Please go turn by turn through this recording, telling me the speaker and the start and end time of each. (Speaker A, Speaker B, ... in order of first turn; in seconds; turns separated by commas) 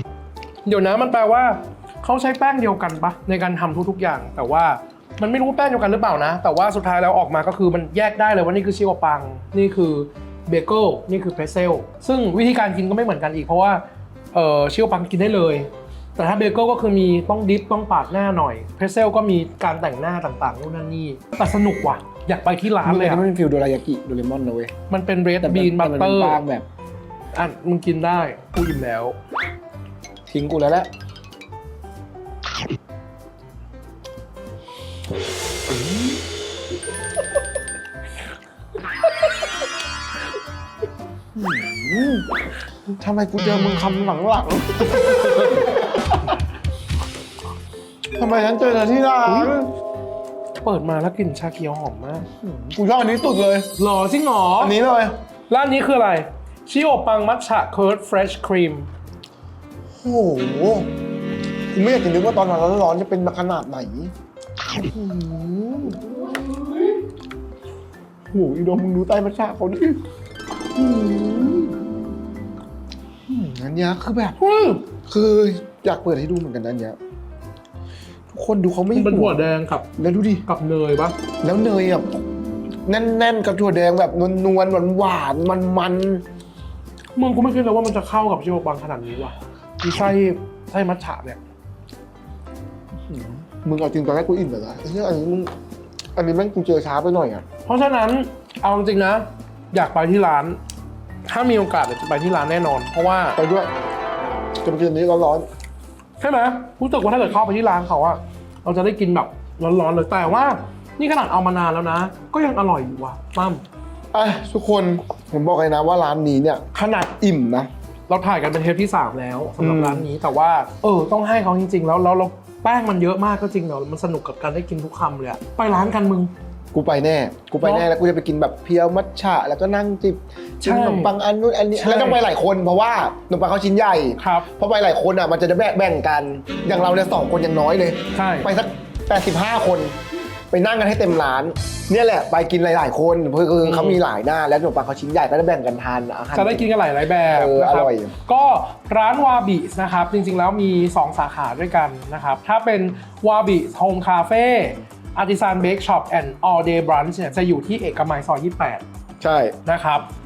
Speaker A: 0.7-23.2, Speaker B: 22.8-24.7, Speaker A: 24.9-26.4, Speaker B: 25.4-26.7, Speaker A: 27.3-29.2, Speaker B: 30.3-30.9, Speaker B: 41.4-42.3, Speaker B: 43.0-46.3, Speaker B: 48.1-49.7, Speaker A: 49.2-49.6, Speaker A: 50.6-52.3, Speaker B: 52.4-53.7, Speaker A: 53.8-54.8, Speaker B: 54.6-55.2, Speaker A: 55.5-58.9, Speaker B: 60.0-60.9, Speaker B: 61.7-64.1, Speaker A: 64.8-66.0, Speaker B: 68.3-70.0, Speaker B: 70.8-71.7, Speaker B: 73.3-74.4, Speaker A: 74.4-74.9, Speaker B: 74.9-77.0, Speaker B: 78.3-79.5, Speaker A: 78.9-79.9, Speaker B: 80.0-80.5, Speaker A: 80.5-81.2, Speaker B: 81.4-82.2, Speaker B: 82.9-86.2, Speaker A: 87.2-91.4, Speaker B: 93.1-95.5, Speaker B: 96.2-97.5, Speaker A: 97.7-100.6, Speaker A: 101.3-103.4, Speaker B: 103.4-103.7, Speaker B: 104.6-105.5, Speaker A: 106.2-113.6, Speaker B: 114.1-117.7, Speaker A: 118.1-126.3, Speaker B: 119.6-120.1, Speaker B: 126.7-140.0, Speaker A: 127.6-127.9, Speaker A: 130.6-131.1, Speaker A: 131.7-132.2, Speaker A: 134.2-134.5, Speaker A: 138.1-138.5, Speaker B: 140.5-146.7, Speaker A: 143.6-144.0, Speaker A: 146.3-158.8, Speaker B: 147.3-148.2, Speaker B: 159.2-159.6, Speaker A: 159.7-160.1